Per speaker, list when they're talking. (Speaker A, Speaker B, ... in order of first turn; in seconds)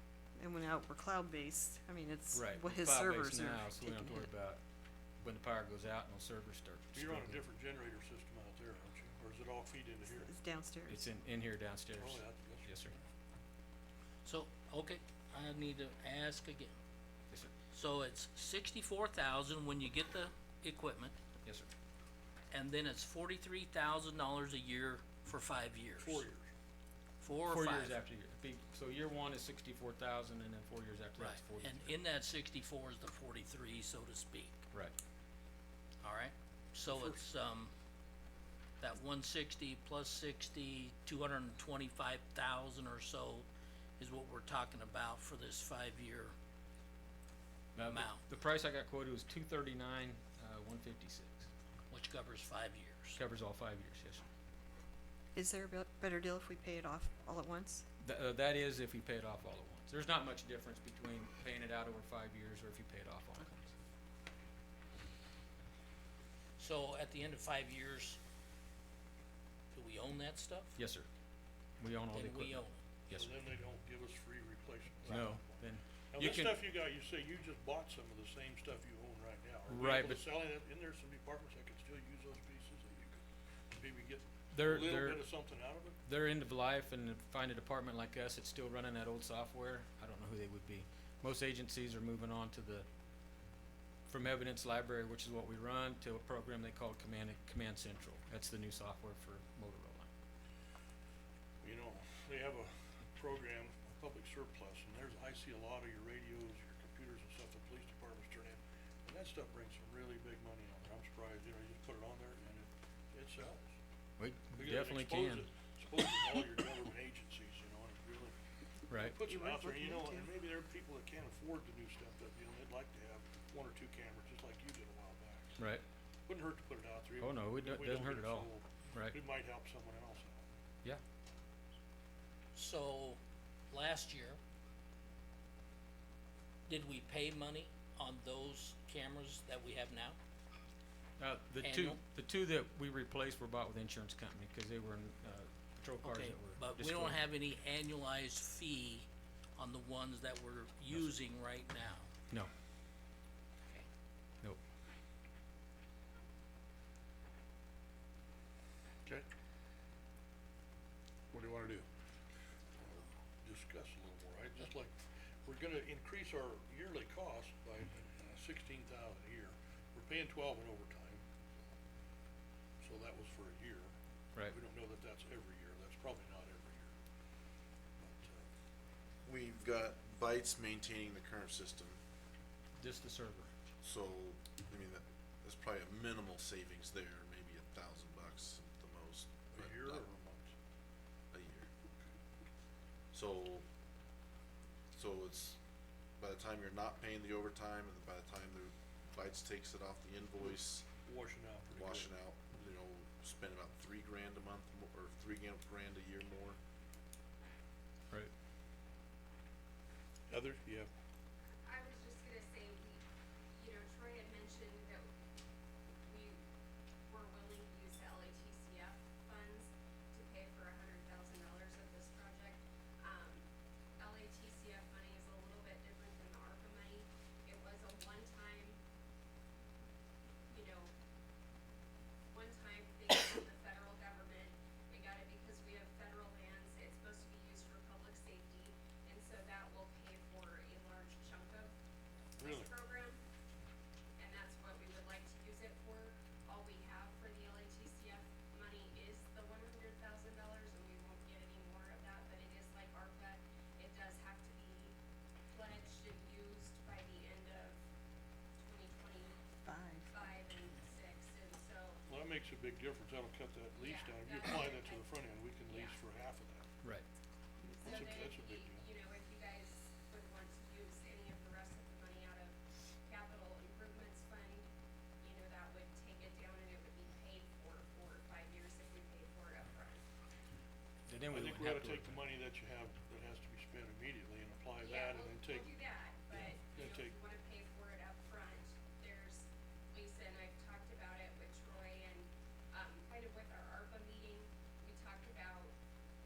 Speaker A: 0.4-4.3, 10.1-11.1, 55.3-57.8, 119.1-120.3, 259.7-260.3, 267.6-268.2
Speaker B: 2.3-4.6, 5.2-7.4, 10.9-12.9, 21.4-21.7, 27.3-31.9, 47.8-51.5, 53.2-54.2, 58.0-63.7, 70.8-71.1, 71.8-73.4, 75.1-76.7, 79.7-80.2, 84.5-85.3, 86.0-92.9, 94.1-100.1, 114.2-115.5, 118.9-119.2, 125.6-125.8, 127.2-129.2, 141.2-147.2, 182.8-183.5, 281.1-282.2
Speaker C: 6.9-10.3, 12.0-12.7, 26.0-26.5, 73.1-83.2, 83.7-86.0, 101.6-113.7, 114.5-118.3, 119.0-125.6, 126.3-130.4, 161.3-161.9, 162.8-171.2, 172.8-173.9, 174.5-176.9, 178.0-178.4, 189.5-190.5, 200.4-202.2, 210.3-210.9, 242.4-242.7, 262.1-266.7, 267.9-268.9, 281.3-285.7, 286.7-287.2
Speaker D: 14.2-16.7, 17.7-21.1, 22.5-26.2, 27.2-28.0, 31.2-34.6, 36.0-37.7, 38.8-43.5, 44.0-46.3, 47.9-48.2, 51.9-53.2, 66.6-68.2, 69.7-70.8, 72.1-72.8, 132.5-134.4, 136.7-140.2, 141.6-142.0, 146.0-152.1
Speaker E: 179.2-182.0, 183.8-190.0, 191.3-191.7, 193.1-193.7, 194.9-195.6, 196.2-200.9, 201.7-206.6
Speaker F: 211.7-213.0, 213.6-215.1, 216.1-216.4, 217.1-223.5, 224.0-228.8, 230.5-230.9, 232.3-241.7, 242.4-243.2, 244.2-254.9, 255.5-257.8, 258.6-259.4, 260.1-262.0, 263.8-266.0, 267.8-274.7, 275.2-280.0, 284.8-295.7